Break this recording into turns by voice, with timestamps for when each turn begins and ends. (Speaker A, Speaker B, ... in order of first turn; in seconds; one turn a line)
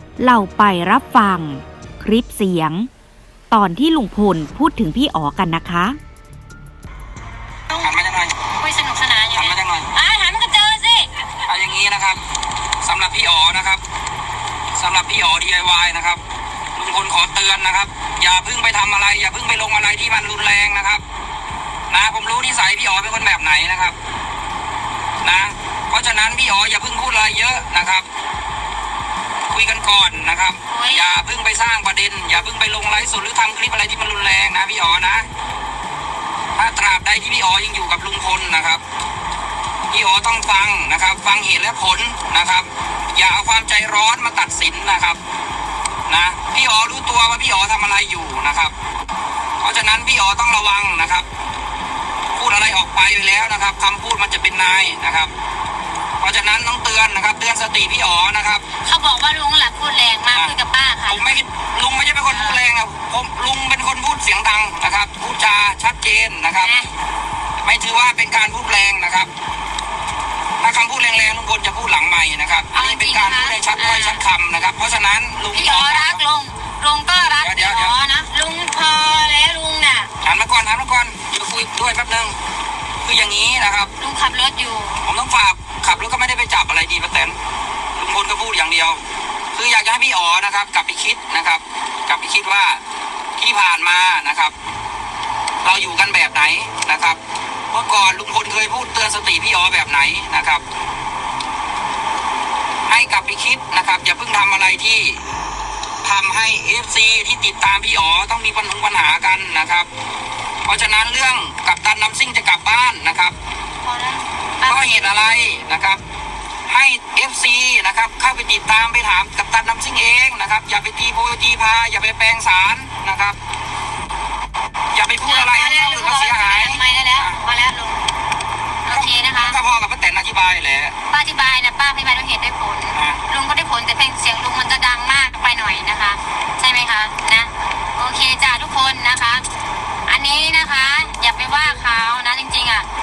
Speaker A: 0.2-2.9
Speaker A: 3.5-6.0
Speaker B: 7.7-8.4
Speaker C: 8.6-11.3
Speaker B: 9.3-9.9
Speaker B: 11.5-12.2
Speaker B: 12.8-13.8
Speaker B: 14.8-16.2
Speaker B: 16.8-21.0
Speaker B: 21.9-24.0
Speaker B: 25.2-28.1
Speaker B: 29.5-35.3
Speaker C: 30.7-31.1
Speaker B: 36.6-38.8
Speaker B: 39.9-45.2
Speaker B: 46.1-48.8
Speaker B: 49.6-51.3
Speaker B: 52.4-55.3
Speaker B: 56.2-58.6
Speaker C: 58.8-61.4
Speaker B: 61.1-66.8
Speaker C: 62.3-62.6
Speaker C: 66.6-66.9
Speaker B: 67.6-69.3
Speaker B: 70.6-76.2
Speaker C: 72.7-74.2
Speaker C: 75.5-80.1
Speaker B: 77.4-77.9
Speaker B: 80.2-82.3
Speaker B: 83.0-83.9
Speaker C: 84.0-85.0
Speaker B: 85.0-87.4
Speaker B: 88.0-89.0
Speaker B: 89.5-92.8
Speaker B: 93.4-94.5
Speaker B: 95.6-97.2
Speaker B: 97.7-100.6
Speaker B: 102.9-105.2
Speaker B: 106.0-109.9
Speaker B: 110.7-113.3
Speaker C: 113.8-115.0
Speaker B: 114.6-116.0
Speaker B: 116.7-123.4
Speaker B: 124.9-127.4
Speaker C: 125.2-128.0
Speaker C: 128.8-129.6
Speaker B: 128.9-130.9
Speaker C: 131.1-139.4
Speaker B: 132.9-133.2
Speaker C: 140.1-142.9